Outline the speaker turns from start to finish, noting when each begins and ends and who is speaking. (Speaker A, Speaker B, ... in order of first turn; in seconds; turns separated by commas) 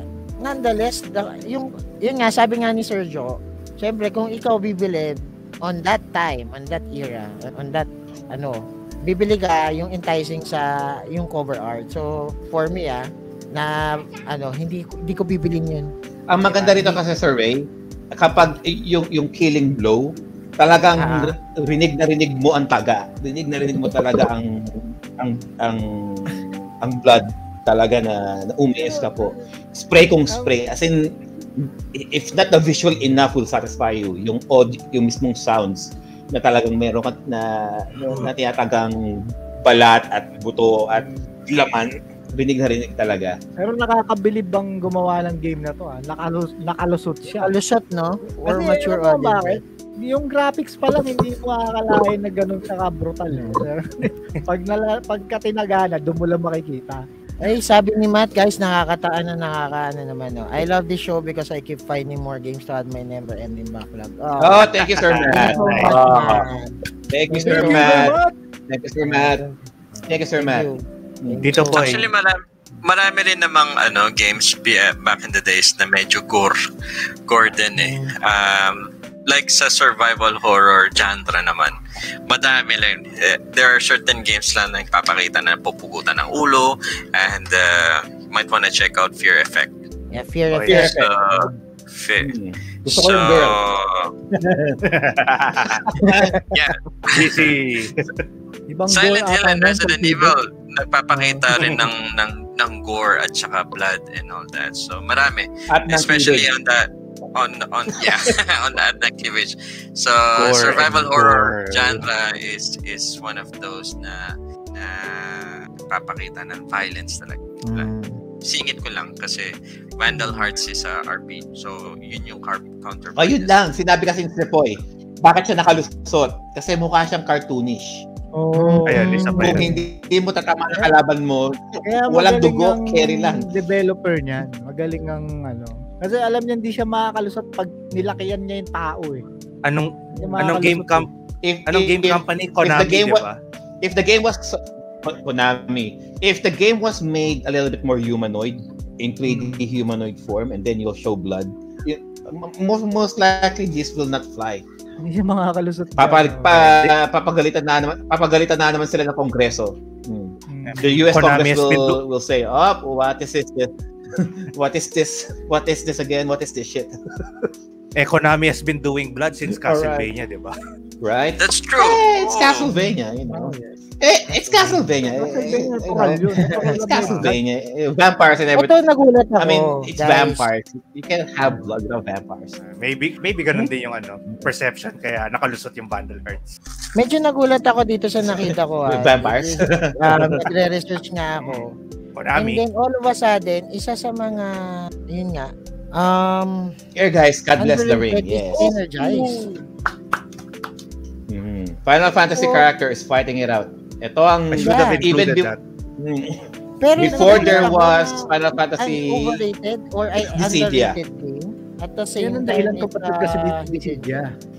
Speaker A: 0.4-17.0, Speaker B: 16.3-31.0, Speaker A: 21.0-21.3, Speaker C: 28.8-29.4, Speaker C: 30.3-30.6, Speaker B: 31.6-39.0, Speaker B: 39.6-43.4, Speaker C: 40.9-41.3, Speaker C: 43.6-47.5, Speaker A: 47.4-49.6, Speaker C: 48.5-57.0, Speaker A: 53.3-53.6, Speaker A: 57.4-64.8, Speaker B: 64.4-66.5, Speaker D: 65.0-66.0, Speaker A: 65.3-66.7, Speaker C: 65.3-66.5, Speaker B: 67.1-68.2, Speaker A: 67.3-68.2, Speaker C: 67.4-68.3, Speaker B: 68.7-69.4, Speaker A: 69.0-72.0, Speaker B: 70.1-70.7, Speaker B: 71.2-71.7, Speaker D: 71.4-72.1, Speaker E: 71.8-76.5, Speaker E: 77.3-81.7, Speaker A: 77.8-78.1, Speaker E: 82.3-89.8, Speaker A: 90.1-91.0, Speaker D: 90.5-90.8, Speaker B: 90.7-91.2, Speaker E: 90.9-92.3, Speaker B: 92.2-93.7, Speaker E: 92.9-94.1, Speaker B: 94.3-94.8, Speaker D: 94.8-95.9, Speaker B: 95.9-96.4, Speaker E: 96.5-97.4, Speaker D: 97.1-98.1, Speaker C: 98.7-100.3, Speaker E: 98.9-117.9, Speaker C: 101.1-101.5, Speaker D: 101.5-101.8, Speaker B: 105.7-106.5, Speaker B: 108.0-108.3, Speaker D: 110.4-112.0, Speaker A: 117.7-118.2, Speaker E: 118.5-123.5, Speaker A: 120.1-120.4, Speaker B: 123.2-128.0, Speaker C: 128.4-129.8, Speaker A: 128.5-129.7, Speaker D: 128.9-129.7, Speaker B: 129.3-133.5, Speaker C: 131.8-139.2, Speaker D: 139.7-141.1, Speaker B: 140.2-140.4, Speaker C: 140.2-141.1, Speaker B: 141.4-143.2, Speaker D: 141.7-143.4, Speaker B: 143.8-154.7, Speaker C: 149.3-149.6, Speaker C: 155.0-156.7, Speaker B: 156.0-166.9, Speaker C: 160.5-161.1, Speaker D: 160.6-162.0, Speaker D: 168.0-170.5, Speaker B: 169.5-170.1, Speaker B: 171.0-178.7, Speaker E: 171.4-172.7, Speaker A: 173.3-173.7, Speaker A: 174.5-174.7, Speaker C: 175.2-177.4, Speaker A: 178.6-180.5, Speaker B: 179.4-182.6, Speaker D: 182.6-186.5, Speaker A: 187.0-191.7, Speaker B: 188.2-190.4, Speaker D: 192.2-192.6, Speaker A: 192.4-194.5, Speaker A: 195.1-196.7, Speaker B: 197.0-198.8, Speaker A: 197.6-199.4, Speaker B: 201.3-206.5, Speaker D: 204.5-205.6, Speaker A: 204.6-205.1, Speaker A: 206.8-208.3, Speaker B: 207.0-209.4, Speaker C: 207.0-207.8, Speaker A: 208.8-214.2, Speaker B: 210.2-211.0, Speaker C: 212.2-214.3